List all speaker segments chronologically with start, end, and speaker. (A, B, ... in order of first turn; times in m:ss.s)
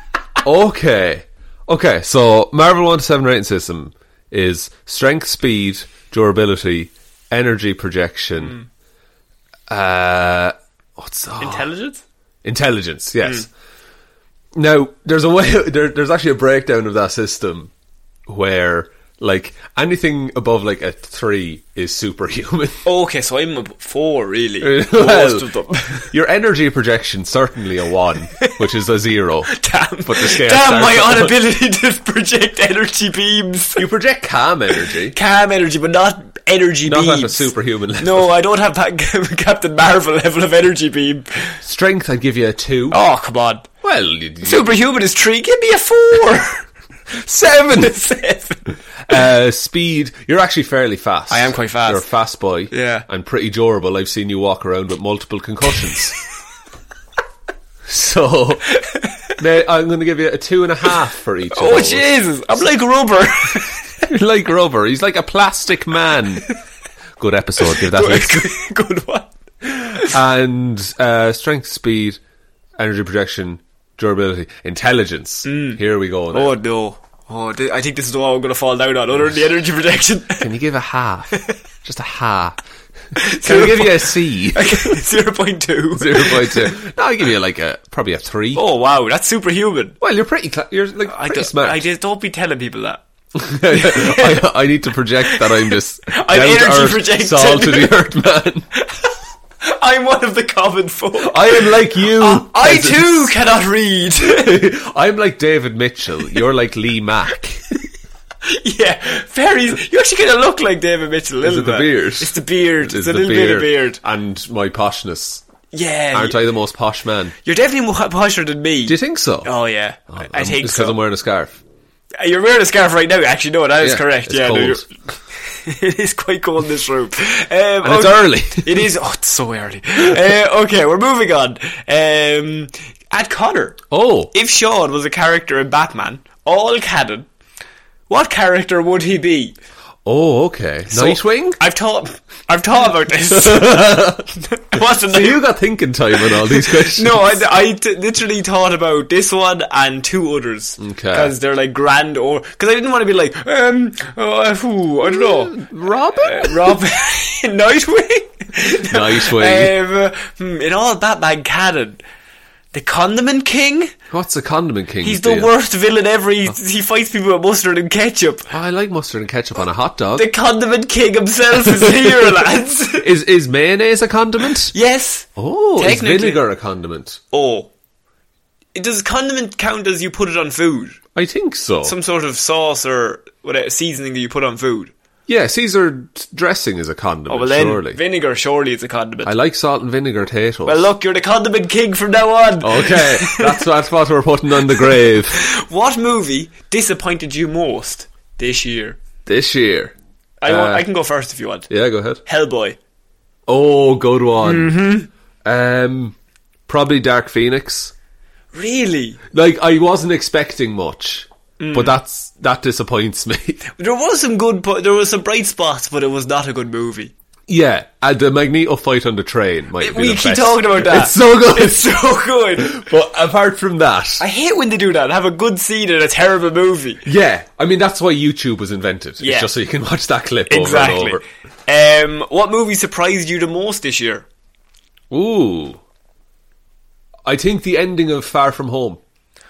0:00.4-0:08.6 A
0:08.4-0:08.6 B
0:09.7-0:11.7 A
0:11.4-0:12.0 B
0:12.4-0:13.5 A
0:14.5-0:17.7 A
0:18.3-0:22.8 A
0:22.8-0:26.1 B
0:24.6-0:25.5 A
0:26.0-0:31.4 A
0:29.5-0:33.9 B
0:33.8-0:35.2 A
0:34.7-0:41.6 B
0:36.8-0:38.3 A
0:41.6-0:43.0 A
0:42.9-0:43.6 B
0:43.8-0:44.7 A
0:44.4-0:46.6 B
0:47.2-0:47.9 A
0:47.3-0:48.7 B
0:49.0-0:56.2 A
0:51.3-0:52.0 B
0:52.7-0:53.0 B
0:57.8-0:58.7 A
0:59.4-1:02.1 A
1:01.5-1:03.8 B
1:04.1-1:06.4 A
1:07.2-1:08.5 A
1:07.6-1:10.1 B
1:10.1-1:12.2 A
1:12.8-1:16.5 A
1:15.4-1:15.8 B
1:16.3-1:20.5 B
1:20.4-1:22.6 A
1:23.2-1:26.7 B
1:23.4-1:25.0 A
1:26.0-1:28.6 A
1:28.5-1:30.0 B
1:30.0-1:31.8 A
1:31.1-1:33.0 B
1:33.4-1:38.7 A
1:33.6-1:34.5 B
1:35.2-1:38.1 B
1:38.8-1:39.1 B
1:39.6-1:44.6 B
1:41.2-1:43.3 A
1:44.2-1:47.6 A
1:48.4-1:54.0 B
1:51.4-1:55.4 A
1:55.7-1:56.4 B
1:56.1-1:57.3 A
1:57.4-2:01.0 B
1:58.8-1:59.5 A
2:00.1-2:01.6 A
2:02.2-2:04.9 B
2:03.8-2:04.9 A
2:05.5-2:17.3 B
2:07.8-2:08.9 A
2:13.9-2:14.3 A
2:18.1-2:19.6 B
2:20.0-2:21.6 A
2:20.9-2:25.4 B
2:23.3-2:27.4 A
2:26.2-2:35.6 B
2:30.8-2:31.3 A
2:35.0-2:36.8 A
2:36.2-2:42.0 B
2:38.9-2:39.7 A
2:42.7-2:43.9 B
2:44.1-2:45.5 A
2:45.0-2:48.5 B
2:48.5-2:50.3 A
2:50.1-2:53.0 B
2:51.6-2:52.5 A
2:53.0-2:54.7 A
2:54.7-2:56.4 B
2:55.4-2:57.2 A
2:57.3-2:57.7 B
2:58.7-3:01.0 B
3:01.1-3:02.0 A
3:01.8-3:04.9 B
3:05.3-3:08.0 A
3:07.3-3:09.3 B
3:09.2-3:10.9 A
3:10.6-3:13.6 B
3:12.6-3:15.4 A
3:14.7-3:19.0 B
3:19.2-3:20.9 A
3:20.4-3:21.7 B
3:21.7-3:22.2 A
3:22.2-3:22.8 B
3:23.5-3:24.7 A
3:24.4-3:25.1 B
3:25.4-3:26.1 A
3:26.7-3:27.9 A
3:28.5-3:29.2 B
3:29.3-3:33.6 A
3:31.6-3:32.0 B
3:33.8-3:37.1 B
3:37.5-3:42.0 A
3:39.8-3:42.8 B
3:42.6-3:44.2 A
3:44.2-3:47.0 B
3:47.0-3:51.2 A
3:49.2-3:49.5 B
3:50.5-3:54.2 B
3:55.1-3:55.8 A
3:57.2-3:59.0 A